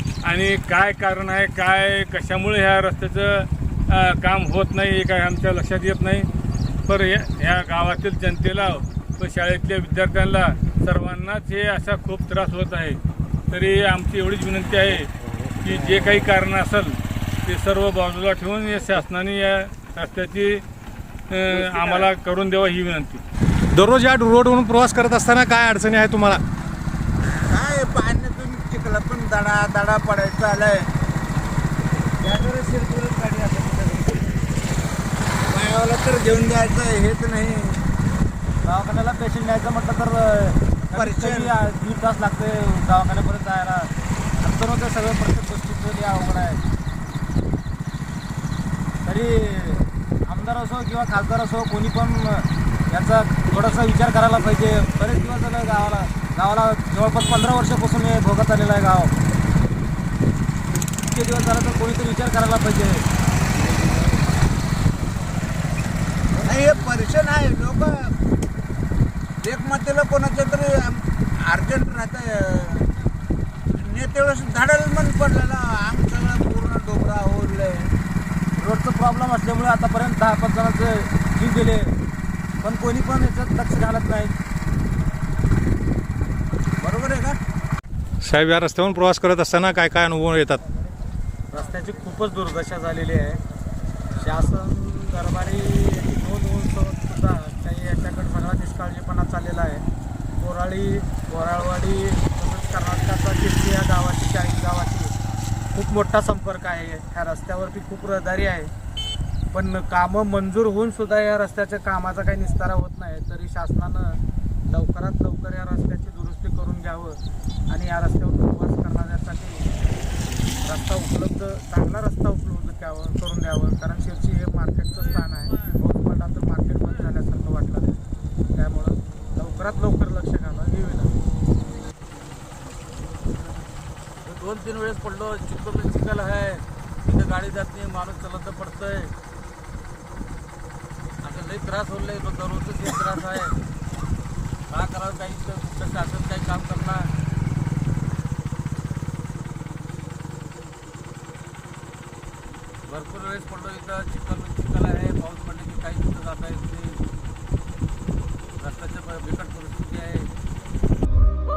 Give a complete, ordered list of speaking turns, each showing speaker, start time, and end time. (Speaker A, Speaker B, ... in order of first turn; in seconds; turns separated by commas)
Speaker A: 0.2-6.3, Speaker A: 6.9-13.0, Speaker A: 13.5-15.1, Speaker A: 15.6-20.6, Speaker A: 21.3-23.2, Speaker B: 23.7-26.4, Speaker C: 27.5-30.9, Speaker C: 32.7-33.8, Speaker C: 35.5-37.9, Speaker D: 38.6-46.6, Speaker C: 40.7-41.6, Speaker D: 49.1-59.1, Speaker D: 61.1-63.0, Speaker C: 66.4-68.1, Speaker C: 69.4-72.9, Speaker C: 73.8-77.9, Speaker D: 78.6-82.0, Speaker D: 82.6-84.3, Speaker C: 86.8-87.4, Speaker B: 88.2-90.6, Speaker D: 91.5-93.4, Speaker D: 94.2-99.8, Speaker D: 100.4-105.1, Speaker D: 105.7-108.7, Speaker D: 109.5-119.7, Speaker D: 120.6-128.0, Speaker D: 128.5-131.1, Speaker E: 134.2-139.1, Speaker E: 141.2-143.6, Speaker E: 144.7-147.1, Speaker E: 152.9-157.0, Speaker E: 158.6-160.3